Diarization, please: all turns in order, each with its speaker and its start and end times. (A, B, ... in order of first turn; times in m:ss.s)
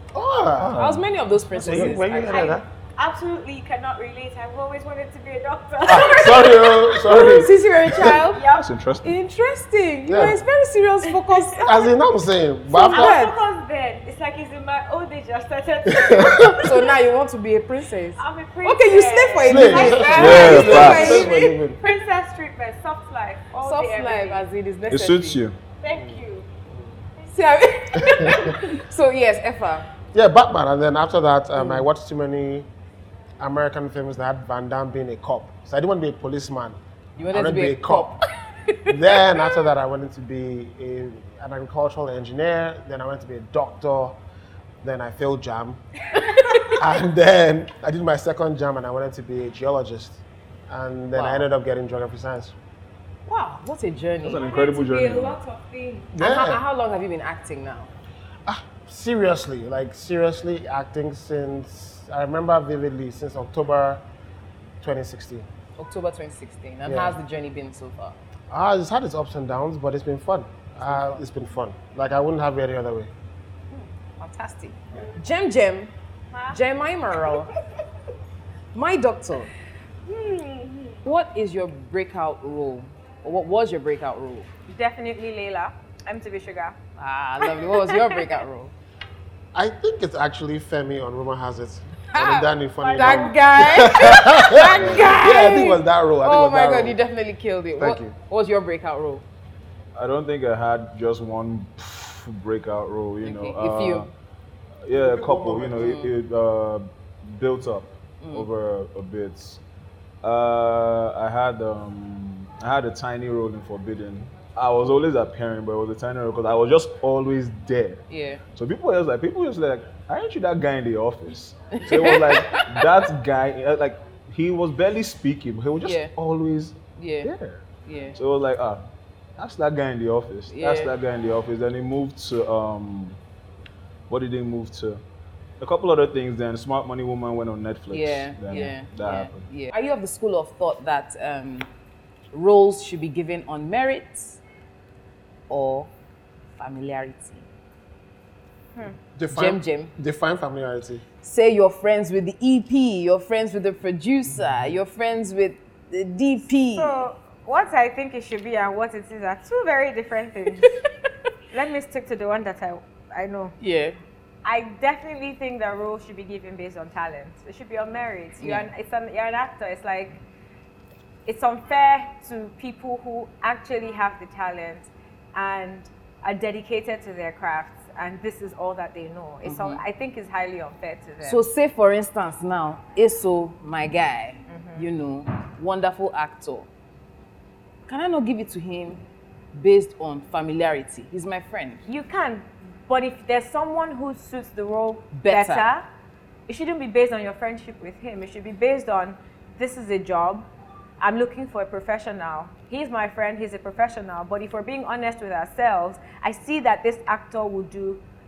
0:00.1-0:00.9 A
0:00.6-0:01.0 B
0:00.7-0:02.4 C
0:01.6-0:02.0 B
0:01.6-0:02.6 A
0:02.2-0:07.1 D
0:05.8-0:08.2 A
0:07.0-0:08.4 C
0:08.3-0:08.6 D
0:08.4-0:09.1 B
0:09.0-0:11.7 C
0:10.1-0:10.4 A
0:11.3-0:11.6 D
0:11.6-0:13.2 A
0:12.7-0:16.7 D
0:12.9-0:13.4 C
0:15.9-0:16.8 A
0:16.6-0:21.4 C
0:18.2-0:24.4 D
0:19.4-0:21.8 A
0:20.2-0:21.4 B
0:23.6-0:25.4 C
0:24.9-0:25.6 B
0:25.8-0:26.5 D
0:27.3-0:29.9 C
0:28.0-0:28.6 A
0:30.1-0:32.7 A
0:31.6-0:31.8 C
0:33.4-0:36.8 A
0:37.2-0:39.2 C
0:37.3-0:38.2 A
0:38.9-0:44.2 A
0:44.8-0:45.8 A
0:46.1-0:46.8 C
0:46.8-0:52.6 A
0:51.1-0:51.5 C
0:53.3-0:54.4 C
0:54.2-0:55.4 B
0:54.4-0:56.1 D
0:56.1-0:56.6 A
0:56.2-0:57.9 C
0:58.4-1:04.0 A
1:04.8-1:05.5 A
1:05.8-1:08.2 C
1:06.8-1:07.2 A
1:08.5-1:13.1 A
1:10.8-1:11.2 C
1:14.2-1:15.9 C
1:16.3-1:16.6 D
1:16.5-1:17.5 C
1:18.7-1:19.5 C
1:20.0-1:21.0 D
1:21.0-1:24.5 C
1:24.7-1:26.8 D
1:27.0-1:28.7 C
1:27.4-1:28.2 D
1:29.5-1:37.0 A
1:32.1-1:39.2 C
1:32.8-1:33.4 D
1:34.8-1:35.2 B
1:35.0-1:35.3 D
1:37.8-1:38.1 A
1:40.0-1:44.1 B
1:43.2-1:44.1 C
1:44.8-1:49.6 B
1:44.9-1:46.0 A
1:45.8-1:46.1 C
1:48.2-1:48.5 C
1:50.2-2:13.2 B
1:58.1-1:58.4 C
2:01.7-2:02.9 C
2:05.8-2:06.1 C
2:07.0-2:07.3 C
2:07.8-2:08.2 C
2:10.5-2:10.9 C
2:14.1-2:15.0 B
2:15.6-2:19.4 B
2:17.9-2:21.7 C
2:22.3-2:24.4 C
2:25.5-2:25.9 C
2:26.6-2:27.5 C
2:29.2-2:31.0 A
2:29.3-2:29.9 C
2:31.2-2:37.0 C
2:36.7-2:40.7 D
2:41.5-2:43.5 D
2:43.6-2:44.0 C
2:44.4-2:50.2 D
2:48.4-2:48.7 C
2:51.2-3:01.4 D
2:59.4-2:59.8 C
3:01.2-3:06.7 C
3:04.5-3:04.8 D
3:07.9-3:09.0 C
3:09.5-3:11.8 C
3:11.8-3:15.8 D
3:15.1-3:15.6 C
3:16.5-3:20.4 D
3:21.0-3:28.0 D